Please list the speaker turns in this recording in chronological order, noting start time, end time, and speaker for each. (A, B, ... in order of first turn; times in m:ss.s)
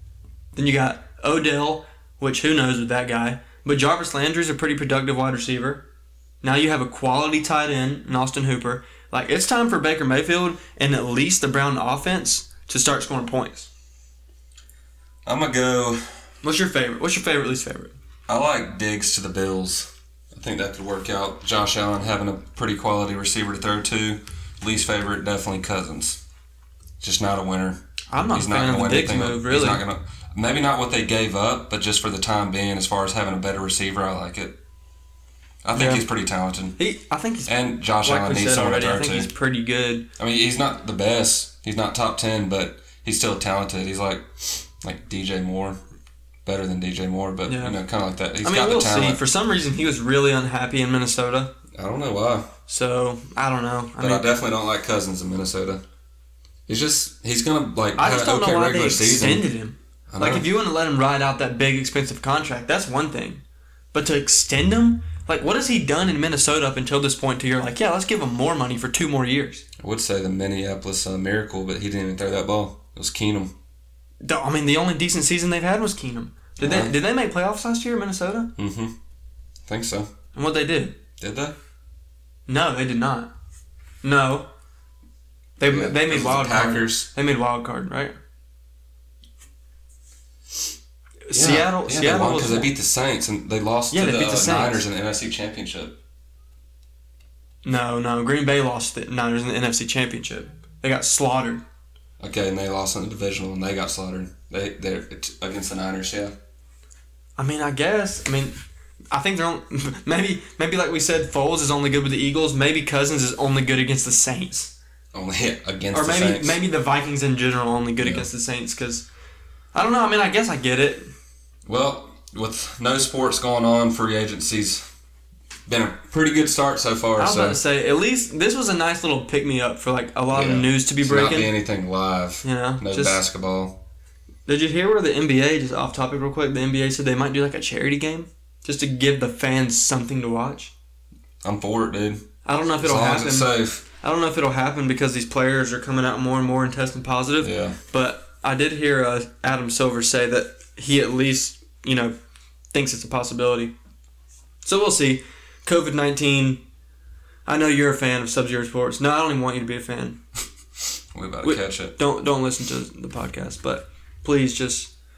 0:00.6-0:05.8 A
0:06.4-0:13.7 A
0:15.2-0:16.0 B
0:16.4-0:17.9 A
0:18.3-0:26.2 B
0:27.0-0:34.6 B
0:28.1-0:29.8 A
0:35.6-0:36.8 B
0:35.7-0:36.0 A
0:36.8-0:40.0 A
0:37.5-0:39.3 B
0:40.2-0:45.8 B
0:46.4-0:49.2 B
0:47.5-0:47.8 A
0:48.4-0:51.5 A
0:51.7-0:52.5 B
0:52.7-0:54.3 A
0:54.0-0:55.8 B
0:56.7-0:59.4 B
0:58.0-1:03.4 A
1:00.1-1:00.5 B
1:03.9-1:09.6 A
1:09.8-1:13.5 B
1:14.2-1:18.5 A
1:16.6-1:16.9 B
1:18.6-1:18.9 B
1:19.7-1:20.1 B
1:20.3-1:21.0 A
1:21.2-1:21.5 B
1:22.5-1:23.3 A
1:24.0-1:24.5 A
1:25.6-1:28.1 A
1:25.7-1:27.1 B
1:31.3-1:32.7 A
1:31.3-1:36.0 B
1:33.9-1:34.8 A
1:37.6-1:41.6 A
1:42.2-1:46.3 B
1:47.4-1:48.5 A
1:49.1-1:54.7 A
1:55.1-1:56.6 B
1:55.9-1:59.0 A
1:58.0-1:58.2 B
1:59.7-2:01.1 A
2:01.6-2:04.8 B
2:05.7-2:07.6 B
2:07.2-2:11.5 A
2:10.3-2:13.8 B
2:12.4-2:13.2 A
2:14.4-2:20.7 A
2:21.4-2:23.8 B
2:22.4-2:32.1 A
2:27.4-2:27.8 B
2:32.7-2:33.7 A
2:34.6-2:36.6 A
2:37.4-2:40.2 A
2:41.1-2:42.0 B
2:41.4-2:44.9 A